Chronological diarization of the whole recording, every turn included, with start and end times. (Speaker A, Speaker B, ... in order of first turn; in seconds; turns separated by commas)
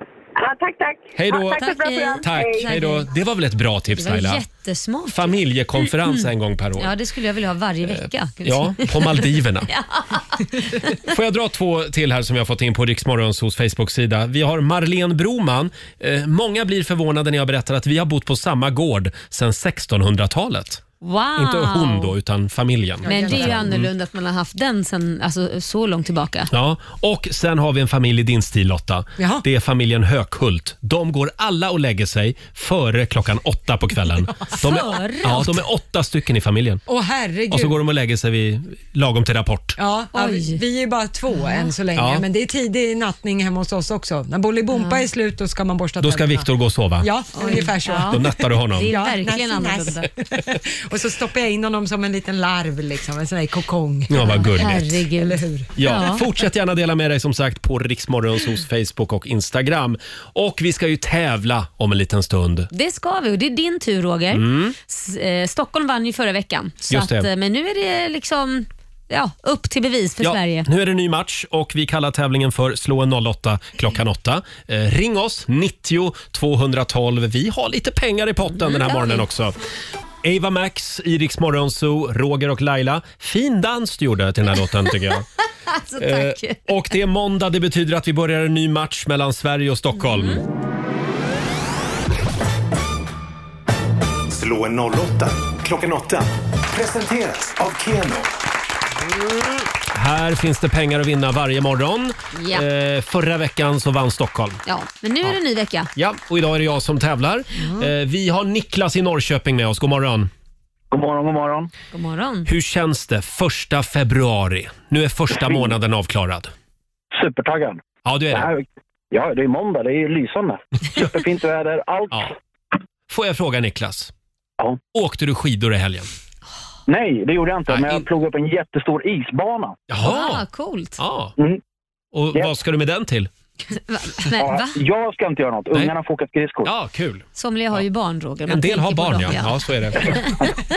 Speaker A: 0.4-2.8, Speaker B: 1.2-4.4, Speaker C: 1.5-3.1, Speaker C: 4.0-6.3, Speaker B: 5.1-6.9, Speaker C: 6.8-11.0, Speaker B: 7.9-9.7, Speaker B: 11.0-20.8, Speaker C: 21.0-22.1, Speaker B: 21.4-23.9, Speaker D: 23.0-23.7, Speaker C: 23.1-26.5, Speaker B: 26.5-36.8, Speaker D: 29.2-29.4, Speaker C: 34.5-35.6, Speaker D: 36.9-37.8, Speaker B: 37.5-39.8, Speaker D: 39.8-46.5, Speaker C: 40.1-40.6, Speaker B: 42.0-42.2, Speaker C: 44.8-45.0, Speaker B: 46.0-47.1, Speaker D: 47.0-48.3, Speaker C: 47.3-50.1, Speaker B: 47.9-49.0, Speaker D: 48.9-55.7, Speaker B: 54.1-55.0, Speaker C: 54.2-56.3, Speaker B: 55.8-62.7, Speaker C: 62.7-70.7, Speaker B: 64.3-64.8, Speaker B: 66.9-67.3, Speaker B: 70.2-79.5, Speaker C: 78.6-79.2, Speaker B: 80.2-85.3, Speaker C: 85.7-86.7, Speaker B: 86.0-90.4, Speaker C: 90.0-90.4, Speaker E: 94.3-98.3, Speaker B: 99.1-104.6, Speaker C: 102.3-102.7, Speaker C: 104.7-105.9, Speaker B: 106.0-110.3, Speaker F: 110.9-111.7, Speaker C: 111.9-112.5, Speaker B: 112.5-116.5, Speaker F: 117.1-122.3, Speaker B: 118.0-118.5, Speaker B: 123.1-124.1, Speaker B: 124.9-126.1, Speaker F: 126.9-129.8, Speaker B: 127.7-128.1, Speaker B: 129.9-130.5, Speaker C: 130.0-131.0, Speaker B: 131.0-131.3, Speaker B: 132.1-133.3, Speaker C: 133.8-134.8, Speaker F: 134.3-136.7, Speaker B: 136.6-137.2, Speaker C: 137.4-140.5, Speaker B: 138.5-140.3